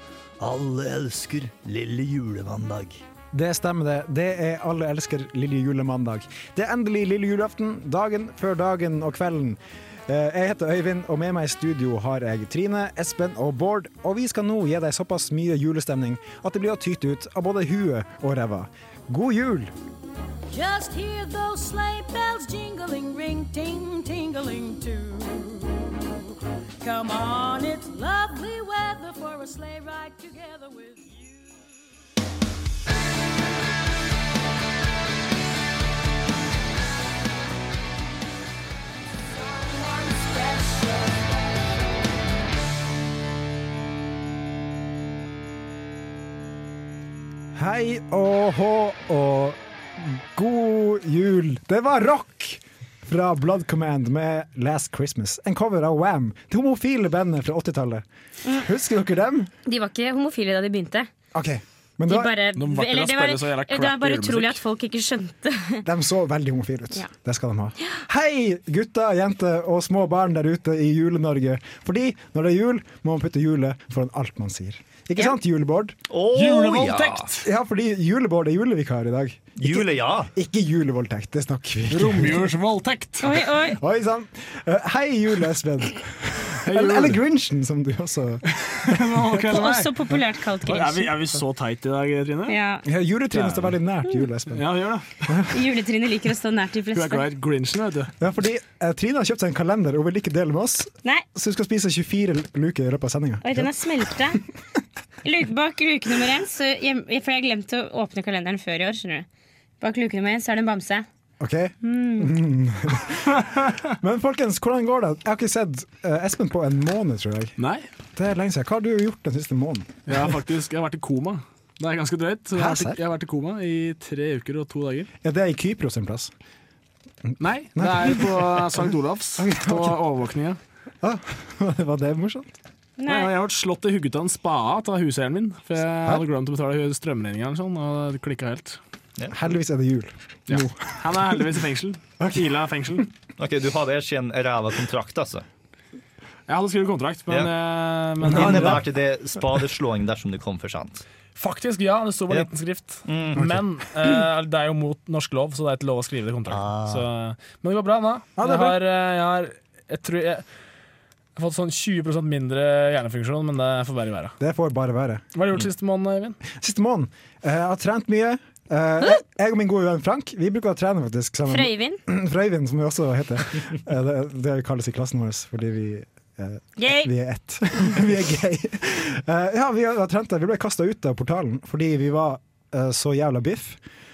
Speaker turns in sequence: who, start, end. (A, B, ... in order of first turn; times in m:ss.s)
0:00.4-0:03.0 A
0:03.3-0:19.7 B
0:20.5-0:31.4 C
0:39.5-0:41.1 C
0:47.6-0:59.5 B
0:59.7-1:01.1 D
1:01.3-1:02.3 B
1:02.1-1:05.8 D
1:02.6-1:04.6 E
1:05.8-1:16.0 B
1:16.1-1:17.3 A
1:16.3-1:17.5 E
1:17.4-1:22.5 B
1:19.6-1:20.3 A
1:21.9-1:23.5 E
1:23.2-1:23.8 D
1:23.8-1:29.4 B
1:26.6-1:27.2 E
1:28.5-1:30.0 E
1:29.5-1:31.1 D
1:30.7-1:32.6 E
1:32.5-1:32.8 D
1:32.8-1:34.7 B
1:33.3-1:33.7 E
1:34.5-1:35.1 E
1:35.2-1:35.6 B
1:35.5-1:37.2 D
1:36.9-1:38.1 E
1:38.2-1:43.7 B
1:43.4-1:44.4 D
1:45.2-1:49.3 D
1:49.8-1:51.0 D
1:51.4-1:57.6 B
1:51.8-1:52.3 D
1:57.6-1:57.9 E
1:58.2-2:00.1 B
2:00.1-2:05.1 E
2:02.5-2:03.0 B
2:05.2-2:06.3 B
2:07.3-2:10.0 B
2:07.4-2:10.6 E
2:11.0-2:12.5 B
2:13.0-2:13.3 D
2:13.1-2:18.8 E
2:19.3-2:21.4 B
2:20.5-2:23.1 E
2:23.4-2:25.4 A
2:26.5-2:28.8 E
2:28.2-2:28.8 B
2:28.2-2:31.0 A
2:31.4-2:40.4 E
2:33.1-2:33.5 A
2:36.5-2:37.1 A
2:38.4-2:38.8 B
2:41.4-2:44.3 E
2:44.4-2:45.2 B
2:45.3-2:46.4 E
2:46.5-3:03.8 B
2:51.5-2:52.0 D
2:56.8-2:57.1 D